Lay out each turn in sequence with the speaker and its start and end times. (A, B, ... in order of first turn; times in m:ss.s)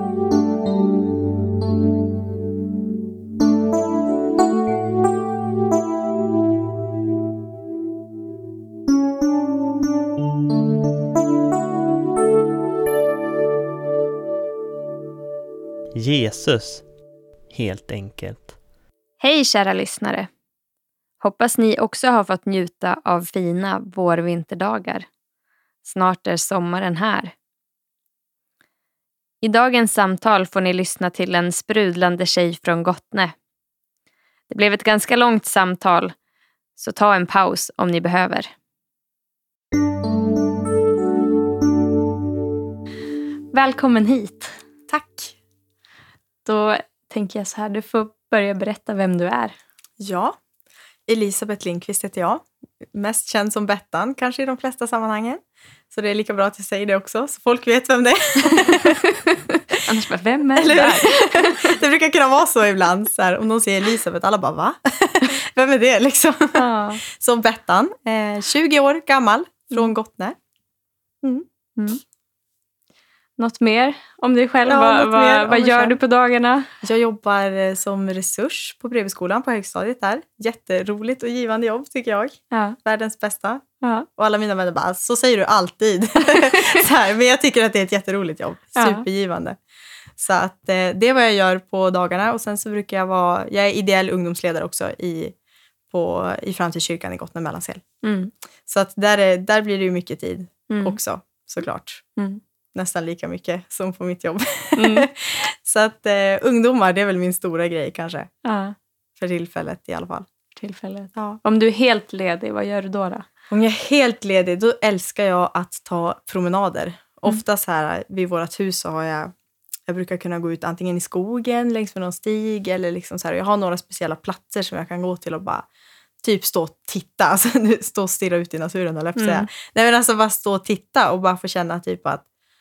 0:16.0-0:16.8 A
0:17.5-0:18.6 A
0:19.2-0:20.3 B
0:21.2-0:25.1 B
0:25.8-0:27.3 B
0:29.4-0:33.3 B
0:34.5-0:36.1 B
0:36.8-0:38.5 B
0:43.5-0:44.5 B
0:44.9-0:45.4 C
0:46.4-0:49.5 B
0:50.0-0:50.4 C
0:51.1-0:59.0 C
0:59.8-1:01.7 B
1:00.6-1:10.4 C
1:06.5-1:07.0 B
1:11.2-1:11.9 C
1:13.4-1:16.7 B
1:14.7-1:16.0 C
1:16.8-1:23.6 C
1:22.5-1:22.8 B
1:23.8-1:24.1 B
1:24.2-1:29.6 C
1:26.3-1:26.8 B
1:28.8-1:29.0 B
1:30.2-1:35.3 C
1:35.9-1:37.8 C
1:38.0-1:38.3 B
1:38.7-1:42.0 C
1:40.7-1:41.0 B
1:42.2-1:42.4 B
1:42.7-1:48.3 C
1:44.8-1:45.1 B
1:48.4-1:48.7 B
1:49.2-1:50.3 C
1:50.6-1:53.2 B
1:51.1-1:51.4 C
1:53.5-1:59.3 C
1:59.9-2:05.6 C
2:06.2-2:12.2 C
2:09.2-2:09.5 B